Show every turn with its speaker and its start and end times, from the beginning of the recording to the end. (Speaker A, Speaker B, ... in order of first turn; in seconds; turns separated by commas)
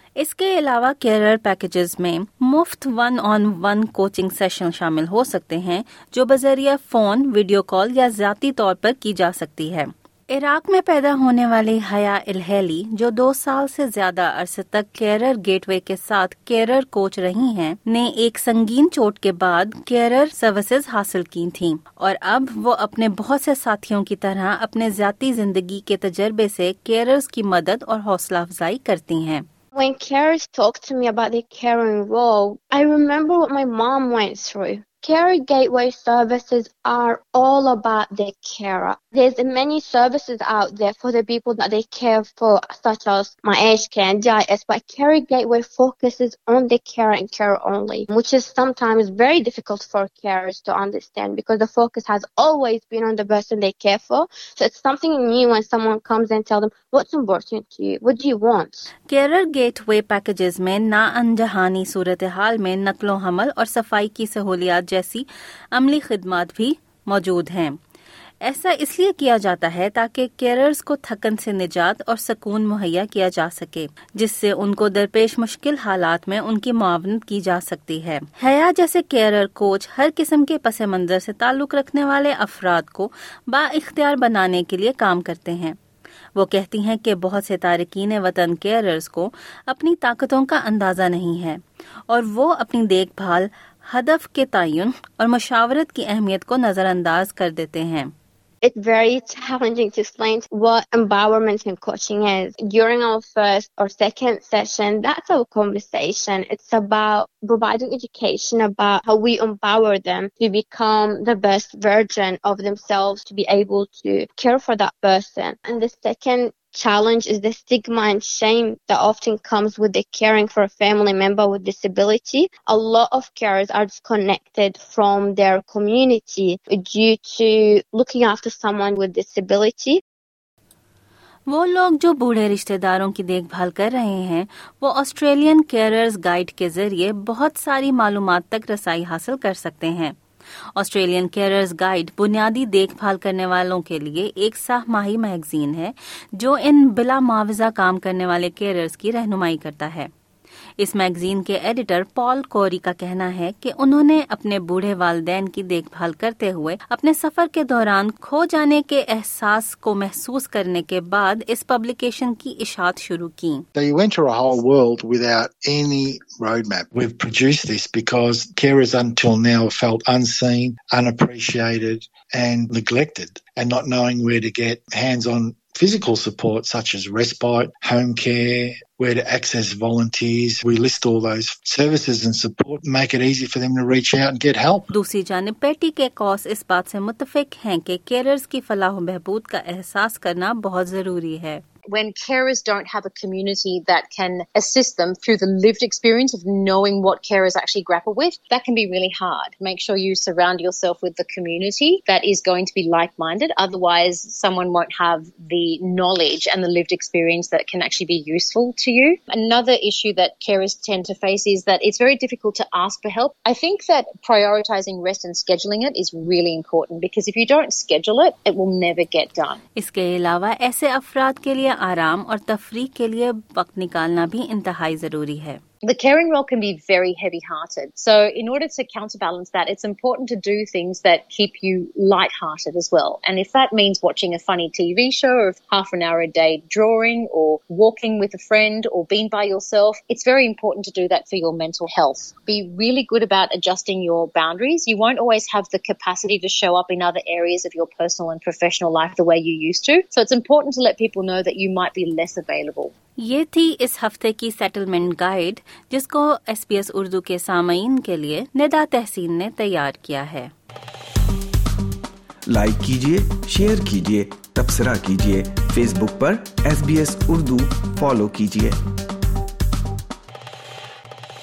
Speaker A: 0.2-29.5, Speaker B: 29.8-58.9, Speaker A: 59.1-67.8, Speaker A: 68.4-85.8, Speaker A: 86.3-98.1, Speaker B: 98.6-130.0, Speaker A: 131.5-140.2, Speaker A: 140.8-150.1, Speaker A: 150.8-163.7, Speaker C: 163.8-184.9, Speaker A: 184.9-191.6, Speaker D: 191.9-219.6, Speaker A: 219.8-225.6, Speaker D: 225.8-252.9, Speaker A: 253.2-260.5, Speaker E: 262.5-268.8